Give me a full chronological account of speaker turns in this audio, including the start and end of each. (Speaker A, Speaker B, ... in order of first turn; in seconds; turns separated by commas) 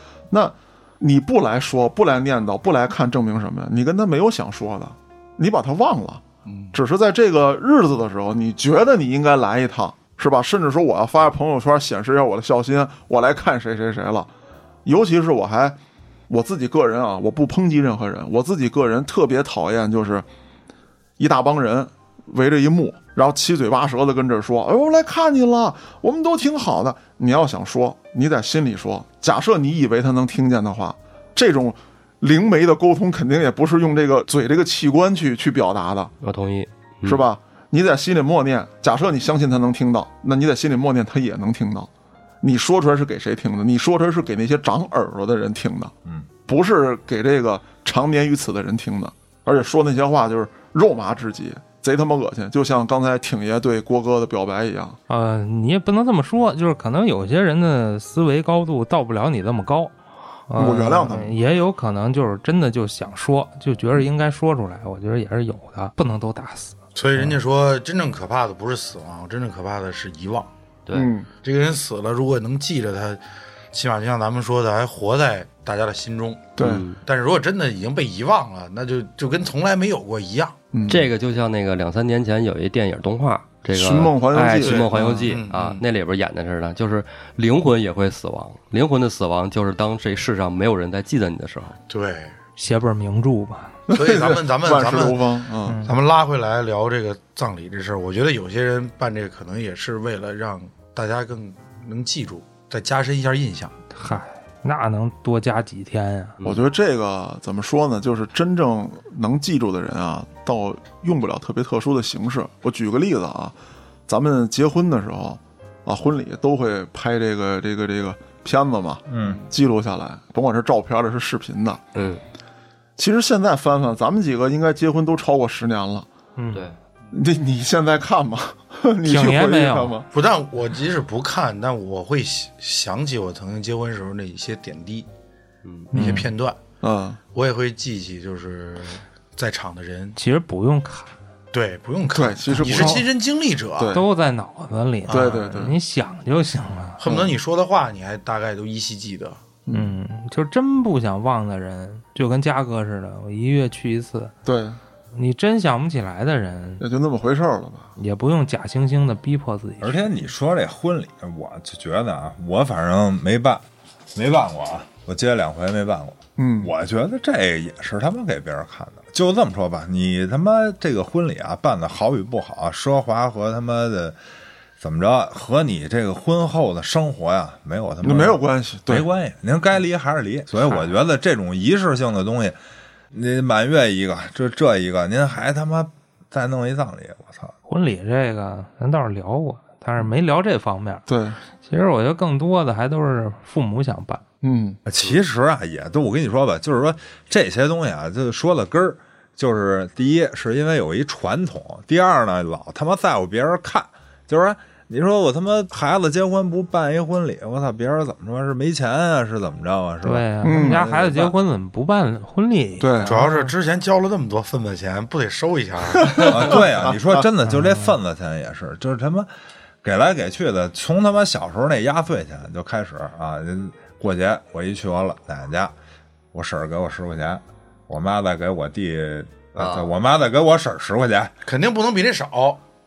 Speaker A: 0.3-6.2, Speaker B: 6.5-6.7, Speaker A: 6.7-14.3, Speaker A: 14.8-15.8, Speaker A: 16.3-20.2, Speaker A: 21.2-36.1, Speaker C: 36.2-37.2, Speaker A: 37.0-41.9, Speaker A: 42.4-45.9, Speaker A: 46.5-55.0, Speaker D: 55.1-60.0, Speaker D: 60.5-66.8, Speaker A: 60.5-61.3, Speaker B: 66.9-70.5, Speaker A: 70.9-71.3, Speaker B: 71.4-73.2, Speaker B: 73.7-80.5, Speaker A: 76.6-76.9, Speaker C: 76.6-77.0, Speaker A: 80.7-81.1, Speaker C: 80.9-91.8, Speaker A: 83.7-85.3, Speaker B: 84.6-85.8, Speaker B: 91.9-92.4, Speaker D: 92.6-93.8, Speaker A: 93.9-95.9, Speaker B: 93.9-95.3, Speaker D: 95.7-95.9, Speaker B: 95.8-103.8, Speaker D: 104.0-106.4, Speaker C: 106.4-106.6, Speaker A: 106.4-113.5, Speaker A: 114.1-121.8, Speaker E: 119.1-119.4, Speaker C: 121.9-122.2, Speaker A: 123.0-126.1, Speaker D: 126.4-126.7, Speaker A: 127.1-130.1, Speaker D: 129.1-130.0, Speaker B: 130.1-135.1, Speaker C: 135.6-135.9, Speaker B: 135.9-136.6, Speaker A: 135.9-137.2, Speaker B: 137.3-140.2, Speaker D: 140.2-141.1, Speaker B: 141.5-144.0, Speaker A: 142.1-143.1, Speaker D: 142.6-143.0, Speaker A: 143.8-144.1, Speaker D: 143.9-147.0, Speaker A: 145.1-145.8, Speaker B: 147.0-149.4, Speaker A: 147.1-147.3, Speaker A: 149.7-149.9, Speaker D: 149.7-154.3, Speaker A: 154.4-154.8, Speaker D: 155.1-156.8, Speaker A: 156.8-157.9, Speaker D: 158.0-160.1, Speaker E: 159.8-163.6, Speaker E: 164.1-174.2, Speaker A: 166.4-166.7, Speaker E: 174.8-182.6, Speaker A: 178.0-179.1, Speaker E: 183.1-187.5, Speaker D: 187.7-191.1, Speaker A: 191.1-191.4, Speaker D: 191.6-194.2, Speaker A: 194.4-194.8, Speaker E: 194.9-210.7, Speaker D: 210.1-213.5, Speaker A: 210.4-211.3, Speaker A: 212.8-213.2, Speaker B: 213.1-216.7, Speaker A: 216.0-216.6, Speaker E: 216.2-219.3, Speaker D: 217.5-217.9, Speaker E: 219.8-225.7, Speaker E: 226.3-231.3, Speaker C: 229.6-229.9, Speaker B: 231.4-232.6